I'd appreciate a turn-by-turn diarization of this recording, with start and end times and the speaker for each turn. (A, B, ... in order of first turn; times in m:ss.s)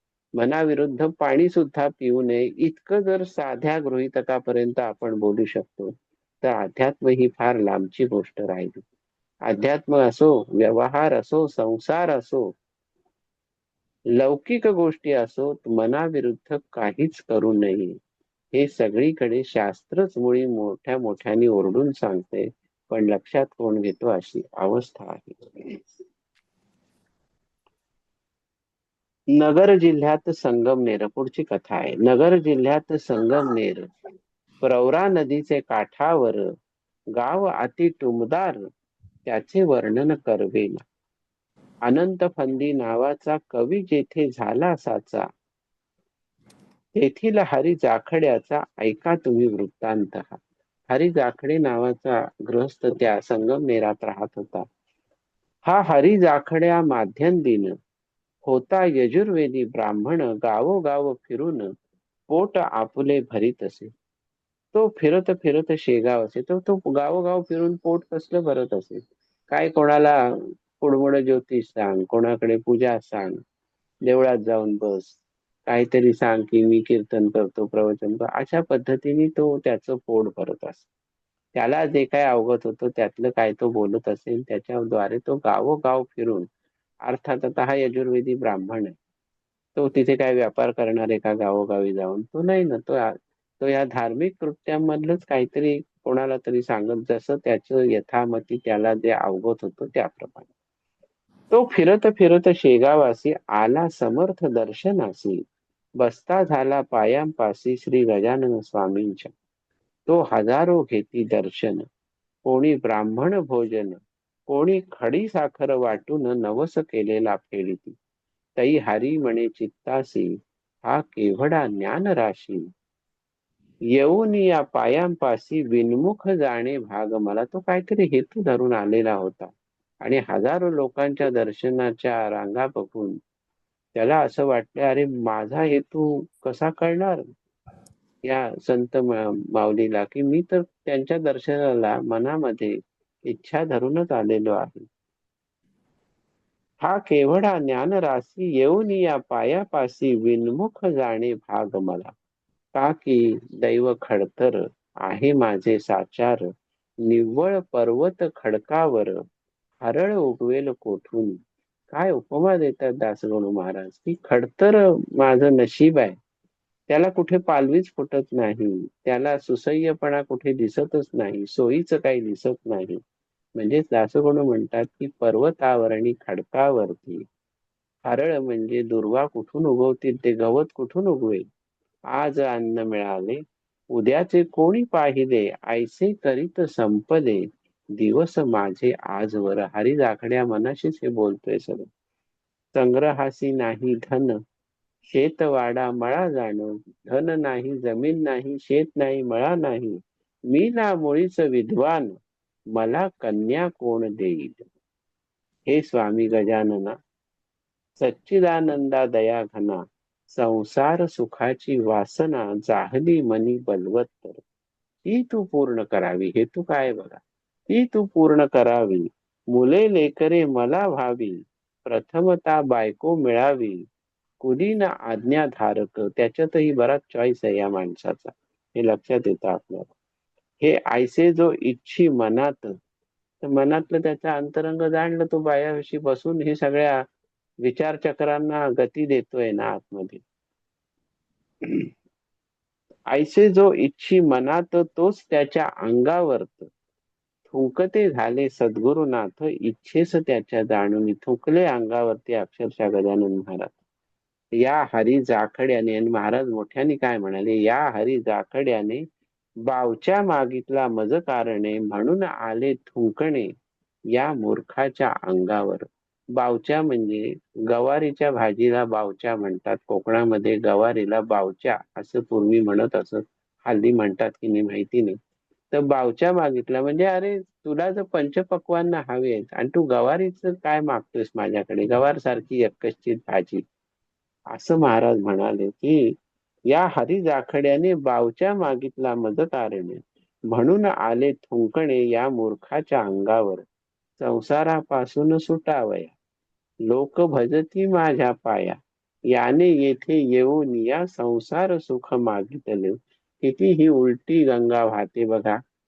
0:00.4-0:08.8 A
0:09.4-0:12.5 A
0:14.2-0:18.0 A
0:18.5-0:25.8 A
0:29.3-0:33.9 A
0:34.6-0:36.4 A
0:37.1-0:38.6 A
0:39.2-0:40.8 A
0:41.8-0:45.3 A
0:47.0-0:54.6 A
0:55.7-0:57.7 A
0:58.4-1:01.7 A
1:02.3-1:03.9 A
1:04.7-1:13.4 A
1:14.0-1:20.9 A
1:21.6-1:26.4 A
1:27.0-1:29.0 A
1:29.8-1:40.5 A
1:41.5-1:45.4 A
1:46.0-1:49.3 A
1:50.1-1:51.8 A
1:52.4-1:58.0 A
1:58.6-2:02.6 A
2:03.9-2:13.2 A
2:14.0-2:17.2 A
2:18.2-2:22.8 A
2:23.3-2:24.9 A
2:26.8-2:32.1 A
2:32.8-2:36.5 A
2:37.0-2:39.2 A
2:39.8-2:41.4 A
2:41.9-2:46.2 A
2:46.9-2:53.0 A
2:53.6-2:57.2 A
2:58.0-3:01.4 A
3:02.1-3:03.4 A
3:03.9-3:07.4 A
3:08.0-3:11.9 A
3:12.7-3:14.4 A
3:15.1-3:20.0 A
3:20.5-3:22.2 A
3:22.7-3:24.6 A
3:25.7-3:27.0 A
3:28.0-3:34.4 A
3:35.0-3:43.8 A
3:44.4-3:49.9 A
3:50.6-3:52.7 A
3:53.4-3:57.0 A
3:57.6-4:00.2 A
4:03.1-4:06.7 A
4:07.5-4:13.8 A
4:14.6-4:19.0 A
4:19.7-4:23.5 A
4:24.1-4:35.2 A
4:35.7-4:43.6 A
4:44.5-4:46.1 A
4:46.7-4:53.6 A
4:54.2-4:56.1 A
4:56.9-4:58.8 A
4:59.3-5:05.6 A